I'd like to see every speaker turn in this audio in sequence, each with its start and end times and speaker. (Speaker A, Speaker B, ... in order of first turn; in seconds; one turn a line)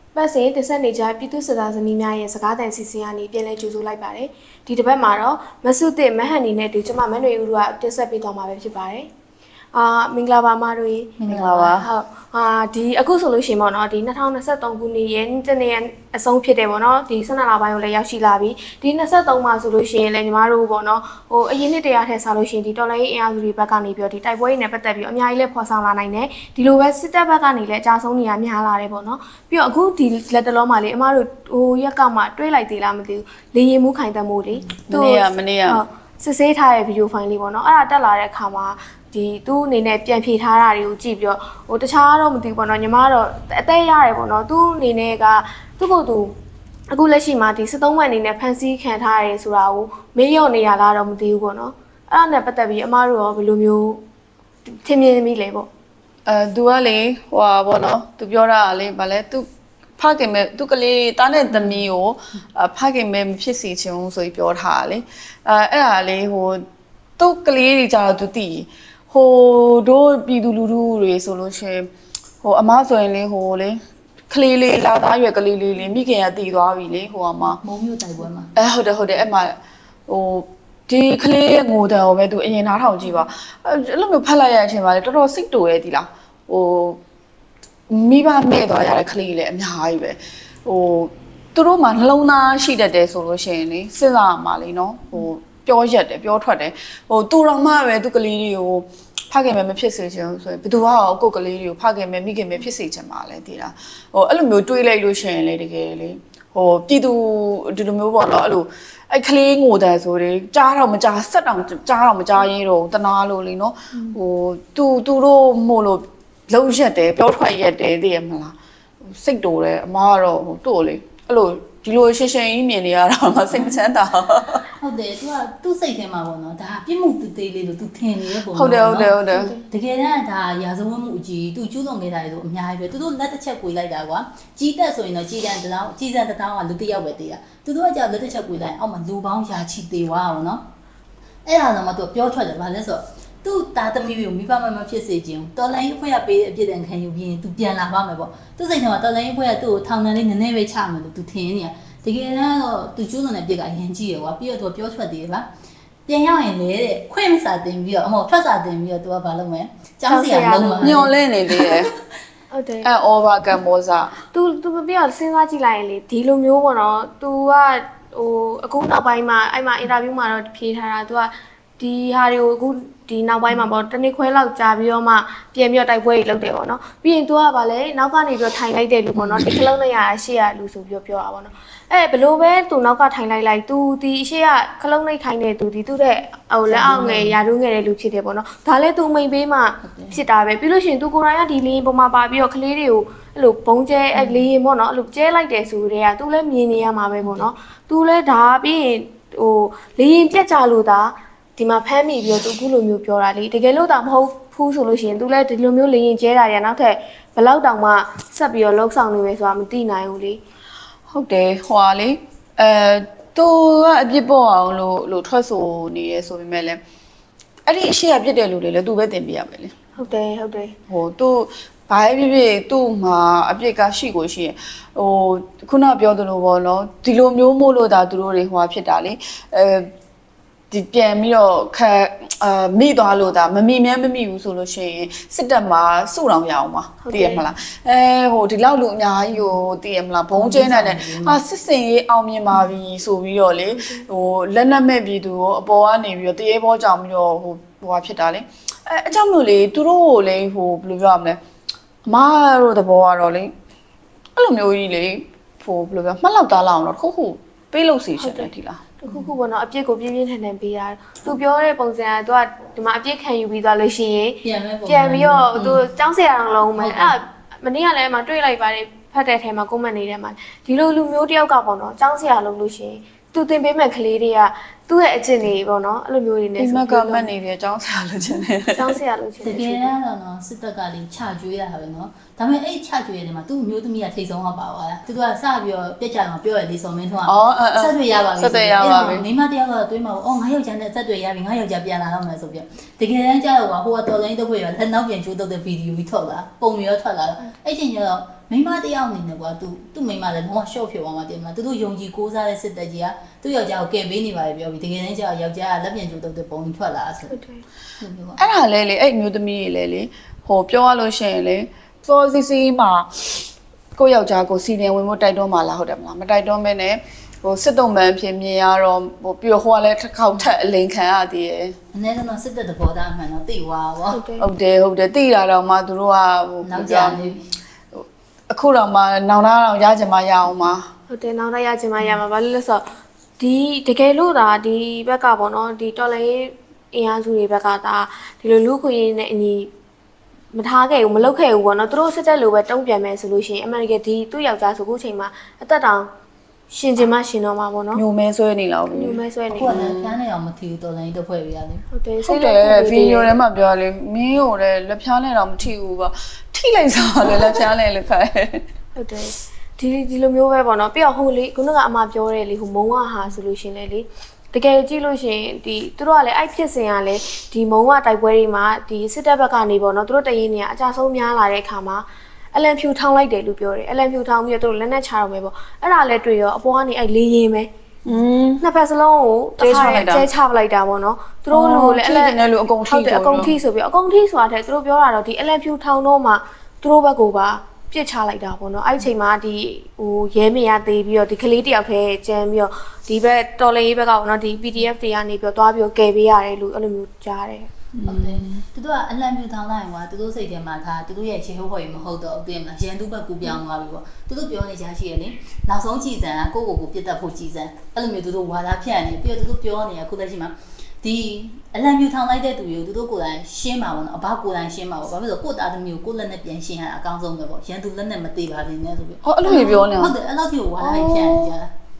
Speaker A: 0.1-9.1
Speaker A: 9.7-46.3
Speaker B: 11.2-11.7
Speaker C: 11.3-11.9
Speaker C: 34.9-35.8
Speaker A: 46.9-54.0
Speaker A: 54.7-55.7
Speaker C: 56.3-66.7
Speaker B: 61.5-61.8
Speaker C: 67.2-71.9
Speaker C: 72.4-73.8
Speaker C: 74.3-77.6
Speaker B: 77.4-78.5
Speaker C: 78.6-79.6
Speaker C: 80.1-87.0
Speaker C: 87.9-124.6
Speaker B: 123.5-123.8
Speaker B: 124.8-140.7
Speaker C: 128.5-129.5
Speaker A: 129.3-129.7
Speaker B: 141.4-155.5
Speaker B: 156.1-161.9
Speaker A: 160.1-161.1
Speaker C: 160.8-161.9
Speaker A: 162.5-162.9
Speaker C: 162.8-164.2
Speaker A: 164.3-210.4
Speaker B: 186.7-187.4
Speaker B: 189.9-190.2
Speaker B: 197.2-197.5
Speaker C: 211.1-216.8
Speaker C: 217.7-219.8
Speaker A: 220.0-220.8
Speaker C: 220.9-229.9
Speaker C: 230.7-251.4
Speaker A: 237.0-237.4
Speaker B: 240.3-241.4
Speaker A: 243.7-244.1
Speaker C: 252.1-253.5
Speaker C: 254.4-258.8
Speaker A: 258.2-258.5
Speaker A: 259.0-277.3
Speaker B: 264.4-265.9
Speaker B: 266.7-267.2
Speaker C: 276.6-278.9
Speaker A: 278.7-279.9
Speaker B: 279.4-307.4
Speaker C: 287.3-289.2
Speaker A: 307.3-307.6
Speaker B: 308.0-308.5
Speaker C: 308.4-313.3
Speaker C: 314.0-321.8
Speaker B: 321.9-324.2
Speaker A: 324.1-324.5
Speaker C: 324.4-327.2
Speaker B: 326.6-327.5
Speaker C: 327.9-330.9
Speaker A: 331.1-339.7
Speaker A: 340.5-346.1
Speaker A: 346.7-348.0
Speaker C: 347.9-349.2
Speaker A: 348.9-349.8
Speaker B: 349.5-351.9
Speaker C: 349.7-350.1
Speaker A: 351.9-353.4
Speaker C: 352.3-358.7
Speaker A: 359.0-377.7
Speaker C: 378.1-378.6
Speaker A: 378.6-397.7
Speaker C: 379.6-380.3
Speaker C: 381.5-383.5
Speaker C: 397.9-398.6
Speaker B: 398.0-421.7
Speaker C: 419.2-420.1
Speaker A: 420.8-421.5